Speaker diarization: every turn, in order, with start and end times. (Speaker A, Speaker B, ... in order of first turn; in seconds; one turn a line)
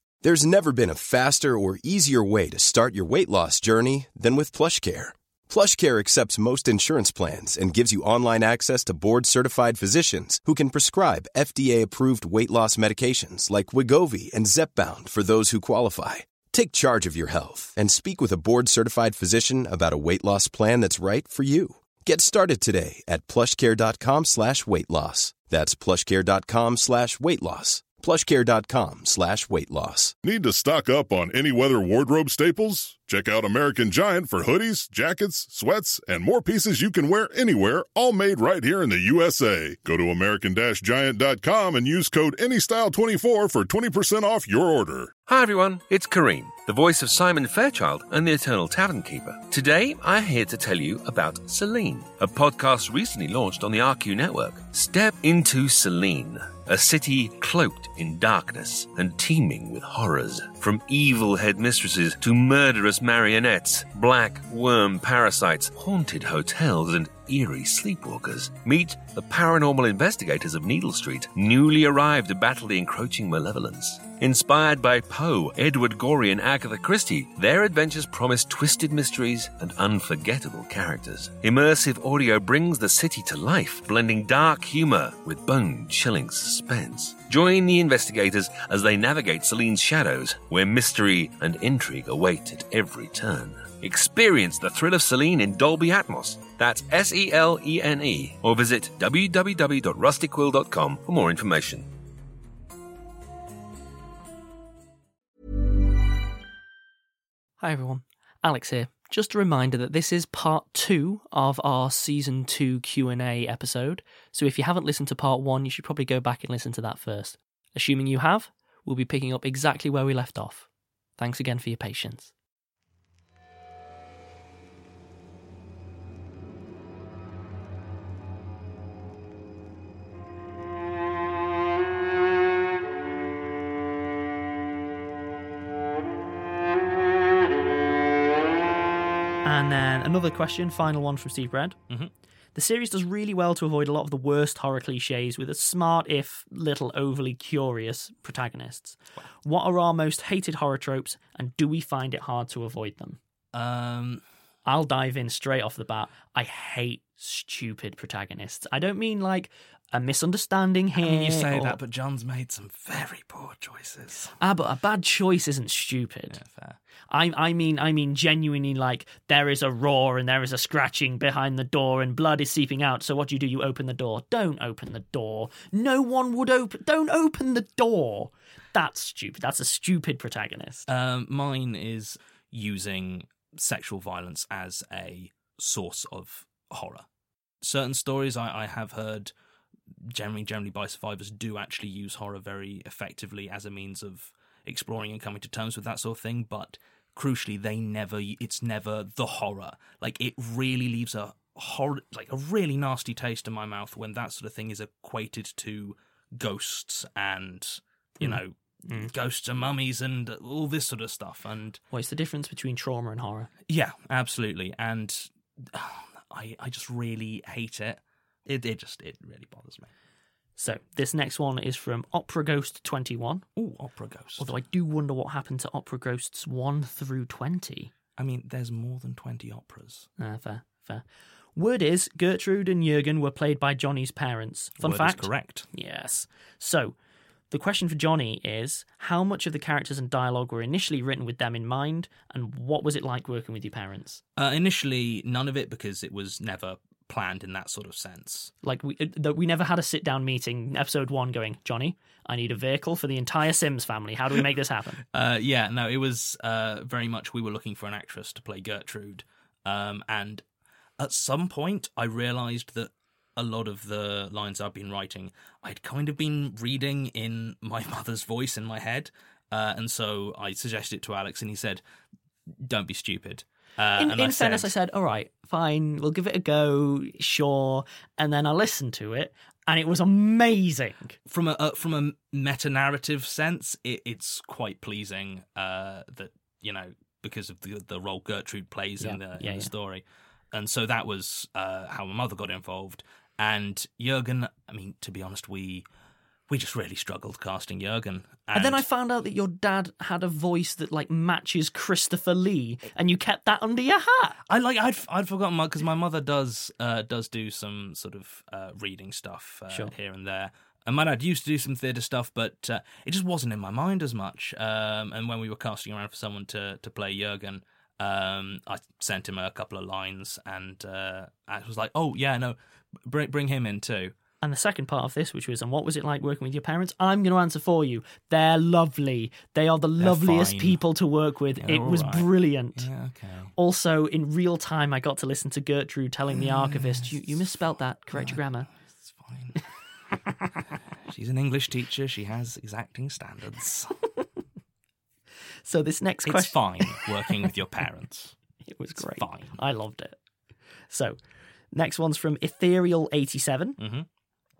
Speaker A: 0.2-30.1
Speaker B: 30.2-45.1
Speaker C: 45.3-101.9
Speaker D: 107.6-122.3
Speaker D: 139.4-141.8
Speaker D: 142.6-153.2
Speaker E: 153.5-154.2
Speaker D: 154.7-161.8
Speaker E: 161.0-164.4
Speaker D: 164.4-166.4
Speaker E: 166.3-166.8
Speaker D: 167.1-180.9
Speaker E: 180.9-187.1
Speaker E: 187.6-189.3
Speaker E: 190.1-211.8
Speaker D: 208.2-209.1
Speaker D: 211.9-213.5
Speaker E: 213.7-219.9
Speaker D: 220.6-223.4
Speaker E: 223.6-224.5
Speaker D: 224.4-227.9
Speaker E: 228.2-230.1
Speaker D: 230.2-231.0
Speaker D: 231.6-236.9
Speaker E: 234.8-235.7
Speaker D: 237.5-244.2
Speaker E: 244.4-248.5
Speaker D: 248.6-255.0
Speaker E: 255.1-260.4
Speaker E: 261.0-271.8
Speaker E: 272.6-274.7
Speaker D: 274.0-281.2
Speaker E: 281.3-295.9
Speaker D: 289.0-289.7
Speaker E: 296.5-298.8
Speaker D: 298.5-304.4
Speaker E: 304.5-324.1
Speaker D: 324.4-332.9
Speaker E: 330.0-330.8
Speaker E: 331.6-333.5
Speaker D: 333.6-338.7
Speaker E: 336.3-337.3
Speaker E: 338.1-339.6
Speaker E: 341.0-344.0
Speaker D: 345.6-347.3
Speaker E: 346.3-348.4
Speaker D: 348.7-350.2
Speaker E: 349.0-349.5
Speaker D: 350.9-351.2
Speaker D: 351.7-353.8
Speaker E: 353.8-354.1